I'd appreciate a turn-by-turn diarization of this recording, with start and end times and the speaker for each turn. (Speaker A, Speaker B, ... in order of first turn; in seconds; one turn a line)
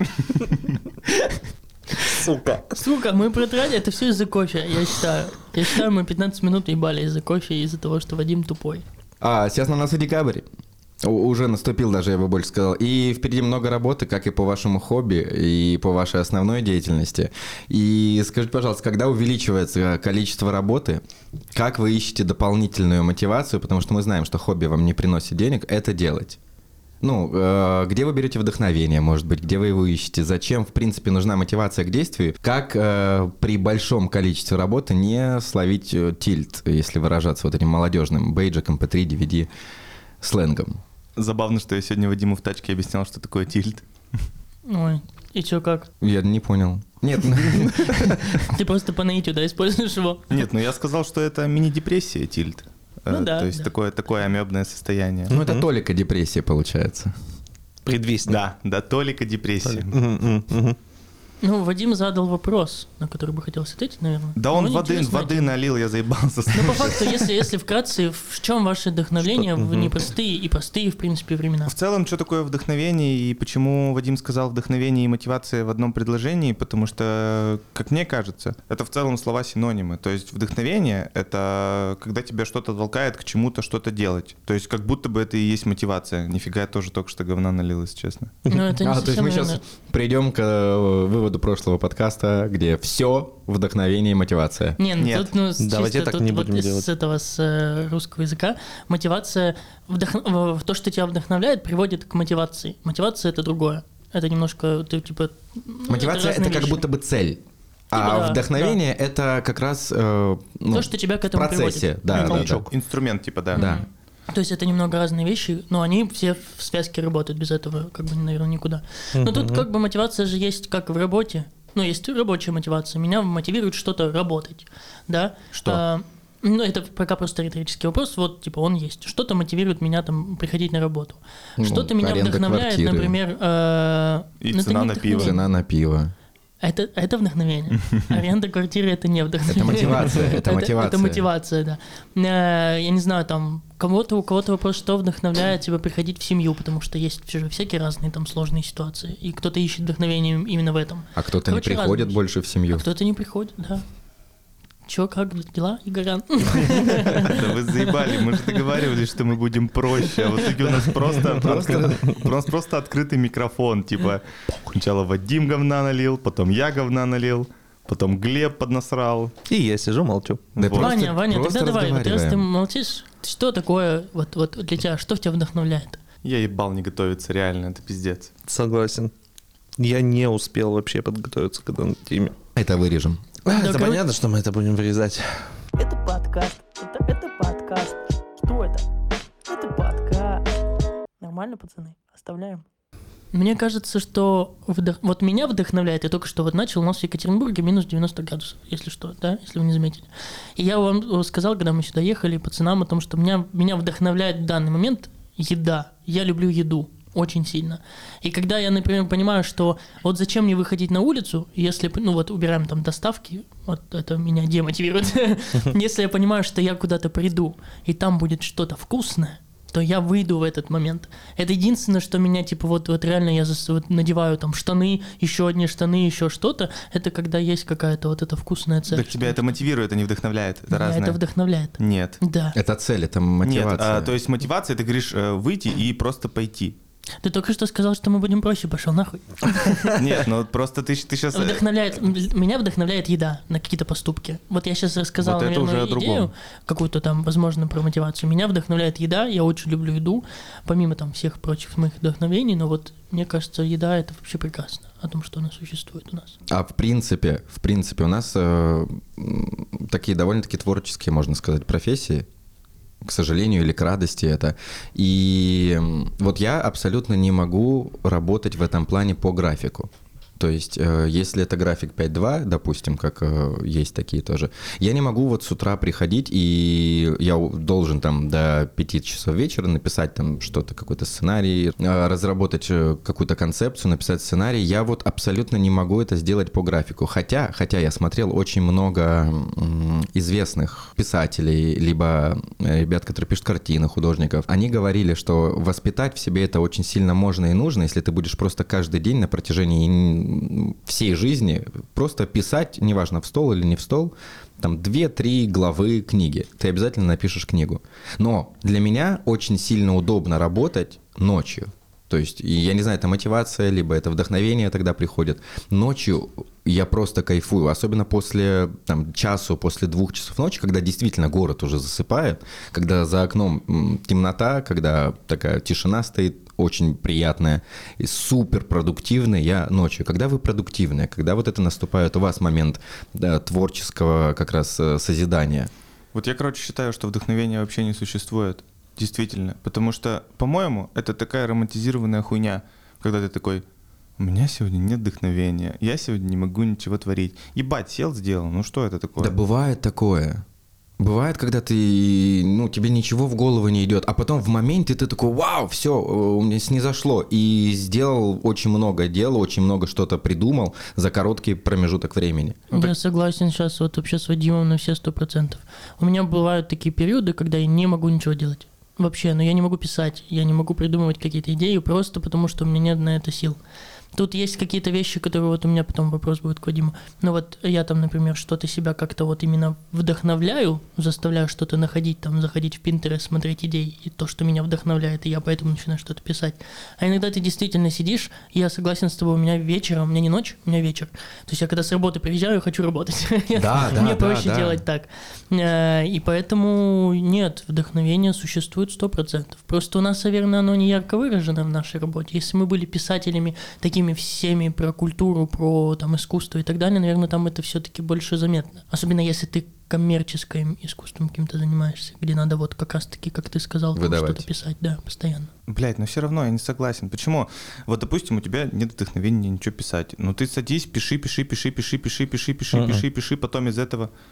Speaker A: 2.1-2.8
Speaker B: 2.8-8.8
Speaker C: 9.2-10.4
Speaker C: 11.0-21.0
Speaker C: 21.5-26.4
Speaker C: 27.0-39.5
Speaker C: 40.2-40.8
Speaker D: 41.1-43.8
Speaker B: 44.7-45.9
Speaker C: 46.0-48.4
Speaker B: 48.3-50.3
Speaker D: 50.3-55.3
Speaker B: 53.1-53.7
Speaker A: 55.3-55.6
Speaker C: 55.3-57.1
Speaker A: 57.8-58.4
Speaker D: 58.2-60.0
Speaker A: 59.6-60.8
Speaker B: 61.4-65.5
Speaker D: 64.4-67.3
Speaker B: 66.5-71.7
Speaker A: 69.2-70.0
Speaker D: 71.7-88.3
Speaker A: 88.4-88.8
Speaker B: 88.5-89.6
Speaker C: 88.8-94.8
Speaker B: 94.8-106.8
Speaker D: 95.0-95.3
Speaker A: 95.6-96.9
Speaker C: 105.9-107.4
Speaker C: 107.9-112.6
Speaker B: 107.9-108.8
Speaker B: 110.7-112.3
Speaker A: 112.1-112.7
Speaker D: 112.3-113.7
Speaker B: 113.5-135.4
Speaker C: 113.5-113.8
Speaker A: 119.1-119.7
Speaker C: 125.5-125.8
Speaker C: 131.6-133.2
Speaker D: 134.4-135.4
Speaker C: 135.1-136.1
Speaker B: 136.6-153.8
Speaker C: 139.5-141.2
Speaker C: 151.2-152.8
Speaker B: 154.8-158.6
Speaker D: 157.1-169.3
Speaker C: 161.4-162.0
Speaker A: 161.5-161.9
Speaker A: 169.4-170.5
Speaker D: 170.6-170.9
Speaker C: 170.6-172.4
Speaker B: 170.7-176.0
Speaker D: 176.2-178.3
Speaker A: 178.4-179.1
Speaker A: 179.8-182.4
Speaker C: 182.6-183.4
Speaker A: 183.4-185.6
Speaker B: 183.5-184.0
Speaker E: 185.8-188.8
Speaker B: 186.1-187.0
Speaker E: 189.5-190.4
Speaker E: 191.2-192.6
Speaker B: 191.9-192.2
Speaker B: 193.3-229.6
Speaker D: 228.9-231.2
Speaker B: 230.7-232.6
Speaker D: 231.8-232.2
Speaker C: 232.5-234.1
Speaker D: 233.4-236.8
Speaker B: 237.2-239.9
Speaker D: 239.9-241.6
Speaker B: 241.3-256.4
Speaker D: 245.2-246.3
Speaker C: 256.5-262.2
Speaker C: 263.0-335.7
Speaker D: 336.1-343.6
Speaker D: 344.2-349.3
Speaker C: 349.2-350.4
Speaker C: 351.0-362.6
Speaker B: 362.7-373.6
Speaker B: 374.1-415.5
Speaker C: 393.5-394.8
Speaker C: 413.9-414.4
Speaker D: 415.7-424.1
Speaker A: 422.7-423.0